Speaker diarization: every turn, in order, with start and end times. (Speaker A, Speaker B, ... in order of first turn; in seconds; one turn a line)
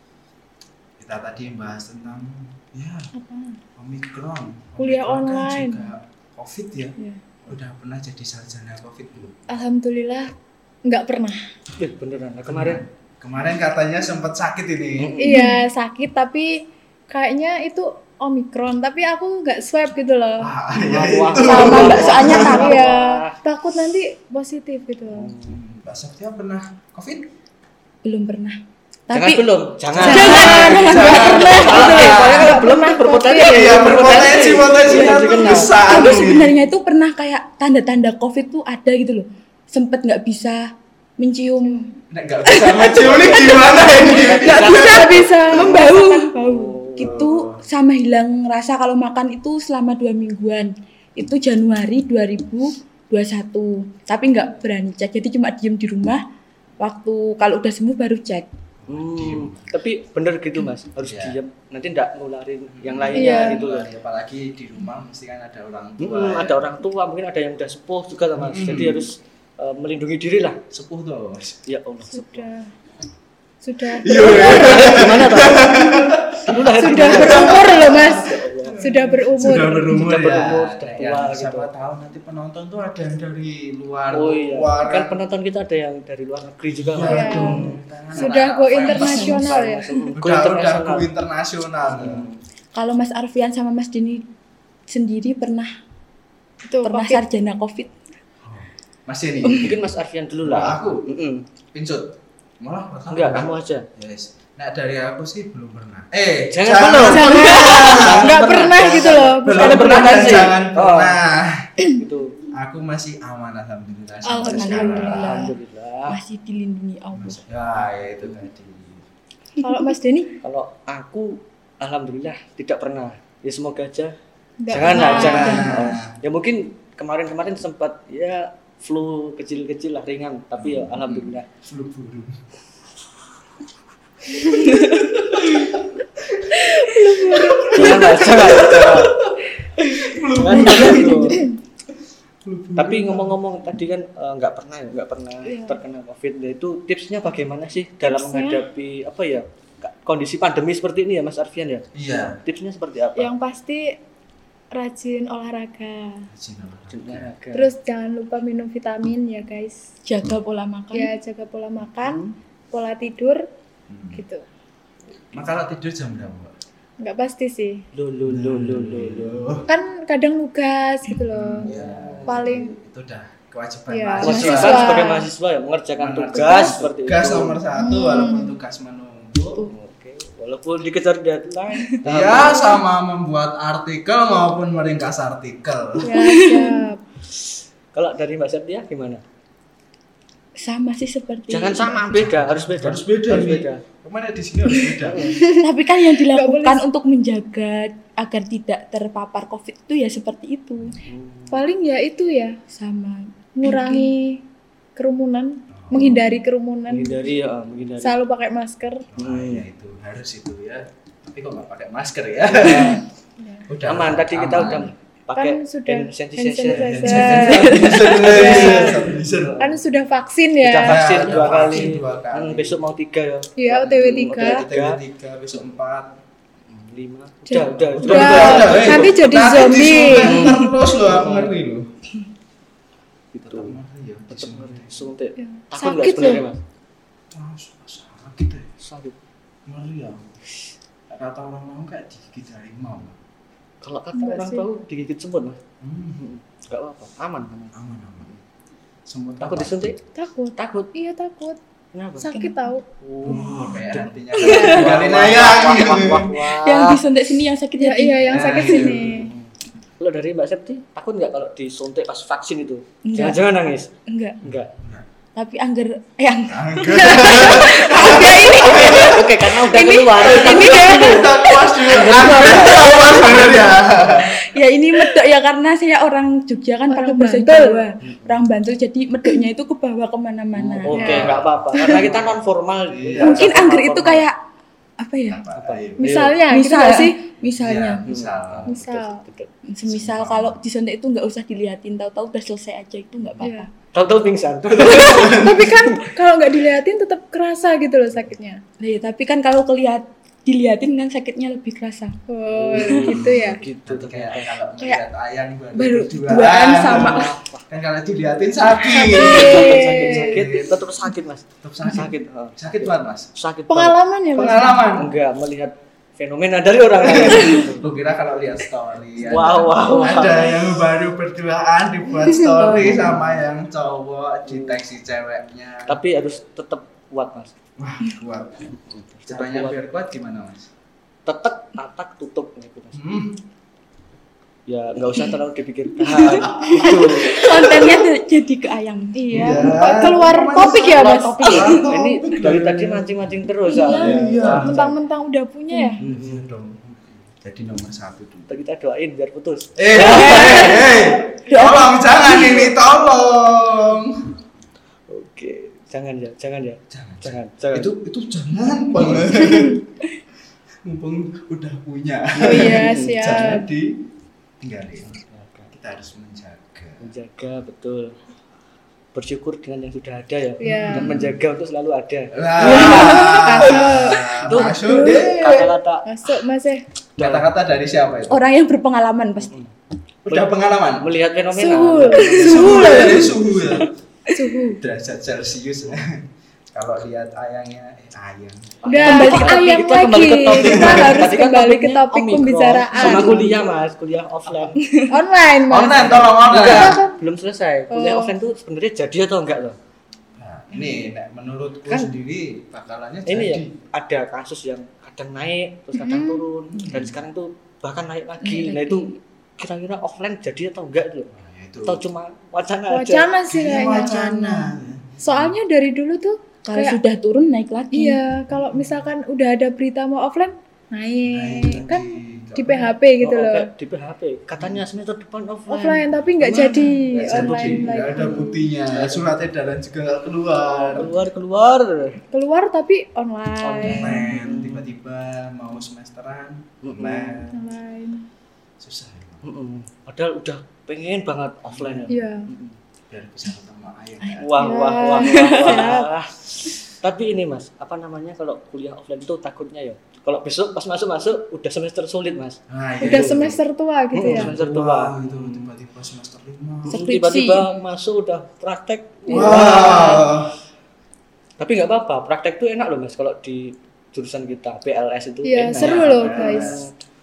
Speaker A: 1.0-3.1
Speaker B: 3.1-3.6
Speaker A: 3.8-9.4
Speaker B: 4.8-5.9
Speaker B: 9.5-10.3
Speaker B: 10.8-11.4
Speaker C: 11.8-12.8
Speaker A: 12.5-15.1
Speaker C: 15.0-15.4
Speaker B: 15.2-20.5
Speaker D: 15.3-15.6
Speaker A: 20.4-22.6
Speaker C: 20.8-23.3
Speaker D: 21.4-22.9
Speaker B: 22.3-25.3
Speaker C: 25.1-25.6
Speaker A: 25.4-27.3
Speaker D: 28.0-29.5
Speaker C: 29.1-35.8
Speaker A: 29.9-32.6
Speaker D: 30.0-32.1
Speaker B: 30.0-34.4
Speaker A: 33.5-36.5
Speaker D: 34.8-40.7
Speaker D: 41.2-41.8
Speaker A: 42.1-45.7
Speaker D: 42.5-56.2
Speaker C: 43.2-47.2
Speaker B: 44.5-46.4
Speaker A: 47.0-47.6
Speaker D: 56.8-58.5
Speaker A: 58.8-59.7
Speaker C: 58.9-63.9
Speaker A: 61.0-61.4
Speaker A: 62.7-66.7
Speaker B: 63.1-63.6
Speaker C: 66.0-70.6
Speaker A: 68.3-69.0
Speaker A: 70.7-71.6
Speaker C: 71.7-72.5
Speaker B: 72.1-72.7
Speaker B: 73.6-75.1
Speaker A: 74.0-85.2
Speaker C: 74.1-78.8
Speaker B: 76.7-79.9
Speaker C: 79.4-81.7
Speaker C: 84.1-91.1
Speaker A: 86.9-89.3
Speaker B: 87.0-89.9
Speaker D: 88.9-89.5
Speaker A: 90.1-92.3
Speaker C: 91.8-92.4
Speaker D: 92.7-94.2
Speaker D: 94.9-95.7
Speaker B: 96.7-97.2
Speaker D: 96.8-97.9
Speaker A: 98.4-99.8
Speaker C: 99.5-101.4
Speaker A: 100.4-101.0
Speaker A: 101.7-111.7
Speaker C: 103.1-103.8
Speaker C: 106.5-111.2
Speaker B: 107.0-110.5
Speaker D: 107.3-107.7
Speaker C: 111.9-112.3
Speaker A: 112.5-115.5
Speaker B: 114.3-115.0
Speaker D: 114.4-117.4
Speaker C: 115.0-116.2
Speaker A: 117.1-119.0
Speaker B: 119.6-120.4
Speaker C: 120.4-124.1
Speaker B: 124.6-125.8
Speaker C: 124.7-131.5
Speaker A: 124.7-126.1
Speaker A: 130.6-132.4
Speaker A: 135.2-136.6
Speaker B: 136.5-138.3
Speaker A: 137.3-141.4
Speaker C: 137.7-139.2
Speaker C: 140.3-141.4
Speaker B: 140.9-141.5
Speaker A: 142.4-143.3
Speaker C: 142.8-151.9
Speaker B: 145.4-145.8
Speaker B: 148.0-148.6
Speaker A: 151.9-152.4
Speaker C: 152.4-153.3
Speaker B: 153.2-154.0
Speaker B: 154.7-156.3
Speaker A: 156.3-157.3
Speaker C: 156.9-157.7
Speaker B: 157.5-159.8
Speaker D: 160.1-161.1
Speaker B: 160.9-163.4
Speaker C: 162.0-162.3
Speaker A: 163.9-164.2
Speaker B: 164.1-164.4
Speaker A: 165.3-166.5
Speaker B: 167.0-167.8
Speaker C: 167.9-169.4
Speaker A: 168.3-169.7
Speaker B: 169.7-171.7
Speaker A: 171.3-175.1
Speaker C: 171.6-172.5
Speaker B: 172.2-172.7
Speaker B: 173.9-175.3
Speaker C: 174.2-177.6
Speaker A: 176.0-179.7
Speaker B: 176.3-176.8
Speaker B: 177.7-178.6
Speaker C: 179.7-182.8
Speaker A: 182.0-186.1
Speaker B: 186.0-187.0
Speaker D: 186.1-186.8
Speaker C: 187.9-189.2
Speaker D: 190.6-192.2
Speaker C: 191.5-193.8
Speaker A: 192.1-195.3
Speaker C: 195.1-195.4
Speaker B: 195.4-195.6
Speaker D: 195.5-201.0
Speaker B: 196.2-196.8
Speaker C: 201.0-201.7
Speaker B: 201.5-202.6
Speaker D: 202.7-204.1
Speaker B: 203.6-204.4
Speaker B: 204.9-207.3
Speaker A: 205.7-206.2
Speaker C: 206.9-208.2
Speaker B: 208.0-209.1
Speaker A: 209.1-213.0
Speaker C: 209.2-209.6
Speaker C: 212.5-213.0
Speaker B: 213.4-213.6
Speaker A: 213.7-214.9
Speaker C: 213.8-219.8
Speaker B: 215.3-219.1
Speaker A: 216.7-219.6
Speaker B: 219.6-221.0
Speaker C: 220.6-225.0
Speaker A: 220.8-222.8
Speaker B: 223.6-224.7
Speaker A: 224.3-226.2
Speaker C: 226.7-229.2
Speaker B: 227.5-230.6
Speaker A: 227.6-231.9
Speaker C: 230.2-231.5
Speaker C: 233.3-233.8
Speaker A: 233.4-235.1
Speaker C: 234.3-236.6
Speaker B: 235.4-236.4
Speaker A: 237.3-238.7
Speaker C: 238.8-239.1
Speaker A: 239.7-240.3
Speaker A: 241.1-243.2
Speaker C: 243.8-245.6
Speaker B: 244.1-244.6
Speaker A: 245.8-246.2
Speaker C: 246.2-247.7
Speaker A: 247.7-248.4
Speaker A: 249.1-249.8
Speaker C: 249.4-250.0
Speaker B: 250.1-251.6
Speaker C: 250.6-250.9
Speaker C: 251.9-252.3
Speaker B: 252.2-252.8
Speaker C: 253.0-257.0
Speaker A: 253.2-256.3
Speaker B: 254.4-254.9
Speaker D: 256.4-259.0
Speaker B: 257.8-259.3
Speaker A: 258.2-259.3
Speaker C: 259.1-259.5
Speaker C: 260.0-263.9
Speaker D: 263.0-263.4
Speaker D: 264.1-264.4
Speaker C: 264.4-264.7
Speaker A: 264.8-265.1
Speaker D: 265.3-281.2
Speaker A: 266.5-269.2
Speaker C: 267.4-274.2
Speaker B: 270.3-271.3
Speaker A: 270.5-274.4
Speaker B: 276.9-277.8
Speaker C: 278.0-278.4
Speaker C: 280.5-284.3
Speaker B: 280.9-281.3
Speaker A: 281.0-283.6
Speaker D: 281.8-282.1
Speaker D: 283.2-284.4
Speaker D: 285.0-285.4
Speaker A: 285.3-286.2
Speaker C: 285.5-286.4
Speaker B: 286.0-287.2
Speaker D: 286.5-288.0
Speaker A: 287.6-288.8
Speaker C: 288.1-289.5
Speaker B: 288.7-289.2
Speaker D: 289.7-293.7
Speaker A: 289.9-290.6
Speaker B: 293.4-293.7
Speaker C: 293.9-296.1
Speaker B: 294.8-298.6
Speaker A: 294.9-295.6
Speaker D: 298.8-302.2
Speaker B: 302.3-303.6
Speaker C: 302.5-304.6
Speaker A: 302.9-310.7
Speaker B: 305.8-307.2
Speaker D: 305.9-307.3
Speaker C: 306.8-307.6
Speaker B: 308.9-310.4
Speaker C: 309.1-314.0
Speaker A: 311.6-313.3
Speaker B: 313.7-314.8
Speaker A: 314.3-315.1
Speaker C: 314.9-317.9
Speaker A: 317.0-325.9
Speaker C: 319.2-320.6
Speaker B: 319.8-320.5
Speaker B: 322.3-322.6
Speaker D: 322.4-323.1
Speaker C: 322.7-323.4
Speaker C: 324.4-324.8
Speaker C: 325.9-327.5
Speaker A: 327.8-330.7
Speaker C: 328.9-329.8
Speaker C: 331.2-333.0
Speaker A: 332.9-333.4
Speaker C: 334.7-337.5
Speaker D: 336.0-339.8
Speaker A: 336.4-337.0
Speaker B: 339.2-341.7
Speaker A: 339.3-343.2
Speaker C: 340.9-344.9
Speaker D: 341.4-341.8
Speaker B: 343.7-346.0
Speaker D: 343.9-344.2
Speaker A: 343.9-344.8
Speaker D: 345.7-346.0
Speaker C: 346.0-346.4
Speaker A: 346.0-348.5
Speaker C: 348.5-350.9
Speaker A: 349.8-354.3
Speaker B: 350.0-350.9
Speaker D: 351.5-352.7
Speaker C: 355.1-357.9
Speaker A: 356.9-359.8
Speaker C: 359.0-359.2
Speaker A: 360.8-364.0
Speaker B: 362.4-363.6
Speaker C: 362.5-363.4
Speaker A: 364.6-365.2
Speaker C: 365.0-365.7
Speaker A: 365.7-367.1
Speaker C: 367.0-368.1
Speaker C: 369.1-376.4
Speaker B: 370.6-371.1
Speaker A: 370.9-371.4
Speaker A: 372.3-375.7
Speaker B: 372.6-375.2
Speaker D: 374.9-375.2
Speaker B: 376.1-376.8
Speaker C: 377.2-377.5
Speaker A: 377.2-378.4
Speaker D: 378.3-379.5
Speaker C: 379.4-379.7
Speaker A: 380.2-381.1
Speaker C: 380.3-383.3
Speaker B: 381.5-383.4
Speaker D: 382.3-383.2
Speaker A: 382.4-383.9
Speaker B: 384.3-384.8
Speaker A: 384.8-388.8
Speaker C: 388.8-394.8
Speaker B: 388.9-393.6
Speaker D: 389.0-390.0
Speaker A: 390.6-391.2
Speaker D: 393.0-393.7
Speaker D: 394.7-395.2
Speaker B: 395.1-397.2
Speaker A: 395.7-397.0
Speaker C: 395.8-399.8
Speaker B: 397.9-398.3
Speaker A: 400.4-403.7
Speaker C: 403.3-411.3
Speaker B: 405.9-406.4
Speaker A: 406.7-407.2
Speaker D: 408.4-409.2
Speaker A: 411.3-412.0
Speaker C: 411.9-413.3
Speaker B: 412.9-414.6
Speaker A: 413.5-415.5
Speaker B: 415.2-417.0
Speaker D: 416.6-418.2
Speaker B: 417.9-423.7
Speaker A: 418.7-419.0
Speaker A: 421.2-422.9
Speaker C: 423.2-429.3
Speaker A: 424.5-424.8
Speaker B: 425.7-428.6
Speaker A: 427.1-431.1
Speaker C: 430.9-432.2
Speaker B: 432.3-434.2
Speaker C: 433.6-434.9
Speaker A: 433.8-437.7
Speaker C: 436.8-437.5
Speaker B: 437.5-438.2
Speaker A: 438.8-439.5
Speaker C: 439.4-442.7
Speaker A: 441.7-442.1
Speaker B: 442.1-442.5
Speaker A: 443.1-444.6
Speaker C: 444.4-453.4
Speaker B: 444.5-446.1
Speaker D: 445.0-446.0
Speaker A: 452.7-453.6
Speaker B: 453.0-454.5
Speaker C: 454.1-455.7
Speaker A: 454.2-457.0
Speaker C: 456.9-460.2
Speaker D: 456.9-457.7
Speaker A: 459.3-460.5
Speaker B: 459.3-460.2
Speaker C: 461.6-466.9
Speaker B: 465.4-466.8
Speaker A: 465.7-466.8